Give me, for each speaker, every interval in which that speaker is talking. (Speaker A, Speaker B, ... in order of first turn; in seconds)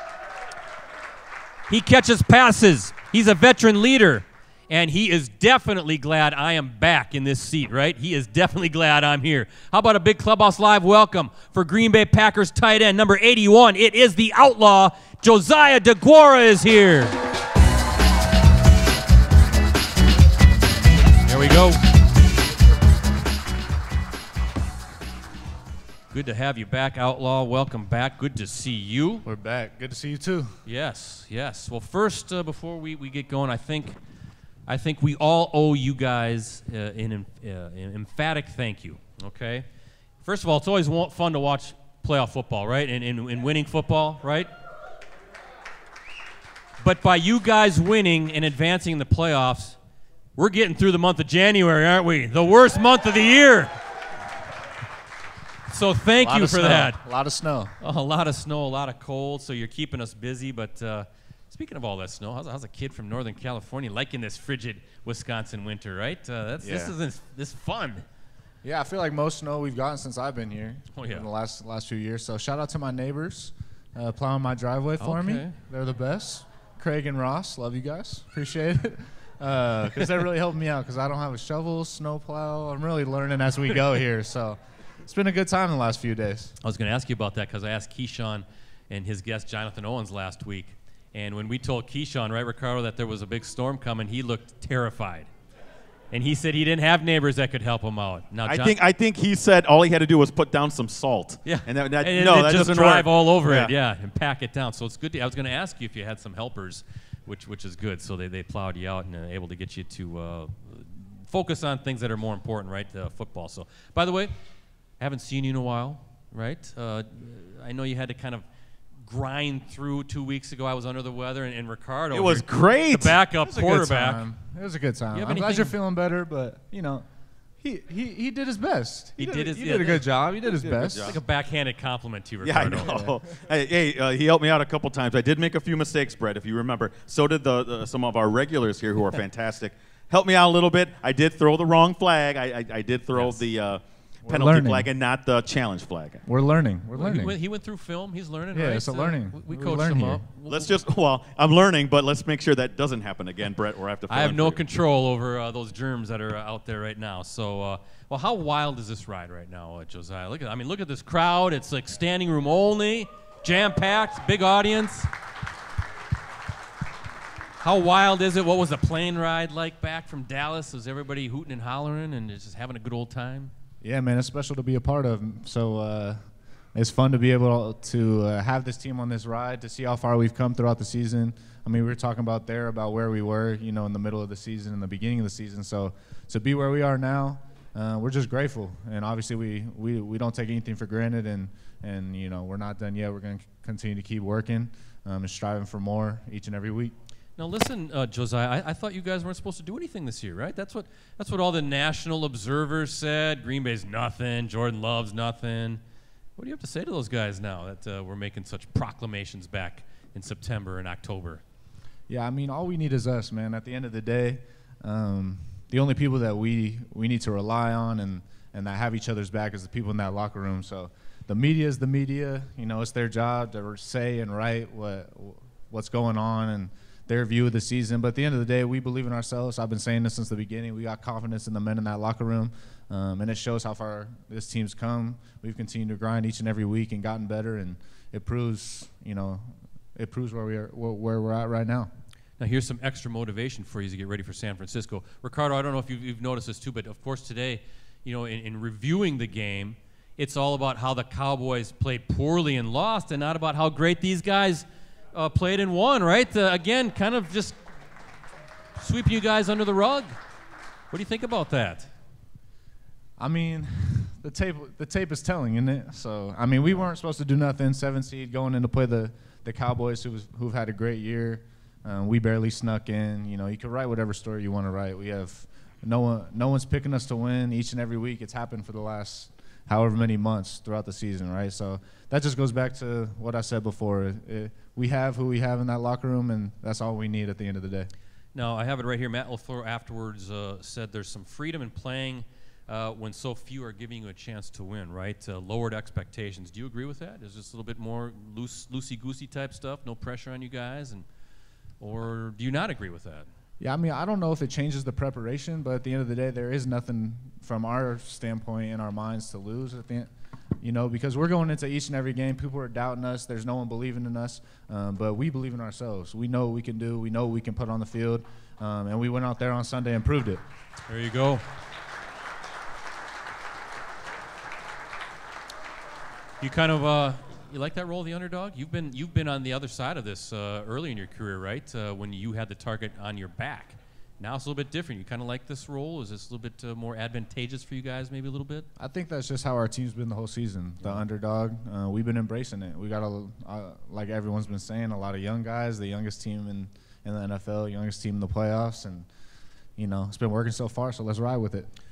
Speaker A: 1.7-17.1, 21.3-21.8, 26.1-29.3, 30.7-34.0, 34.7-39.7, 40.2-44.5, 46.8-49.8, 50.4-53.7, 55.7-57.0, 57.8-68.0, 71.0-71.3, 75.0-75.5, 86.6-95.3, 96.1-98.8, 101.5-114.3, 115.0-118.5, 119.0-124.2, 125.1-125.7, 129.2-130.1, 131.0-133.1, 143.1-143.4, 147.0-150.7, 154.1-165.1, 167.6-173.5, 197.4-205.8, 206.4-211.4, 242.4-257.6, 258.8-260.1, 260.9-261.9, 288.4-301.1, 301.8-303.3, 320.9-321.4, 326.4-338.7
Speaker B: 29.2-30.6, 56.2-57.7, 66.6-67.0, 68.6-86.5, 123.4-127.0, 127.6-131.2, 132.7-133.2, 144.2-144.9, 146.3-147.3, 148.5-150.2, 173.8-176.2, 176.8-196.9, 212.1-241.9, 263.2-287.9, 303.6-320.4, 338.8-349.1, 349.8-351.7
Speaker C: 98.5-103.7, 122.1-123.2, 130.6-131.2, 132.4-146.2, 150.5-154.6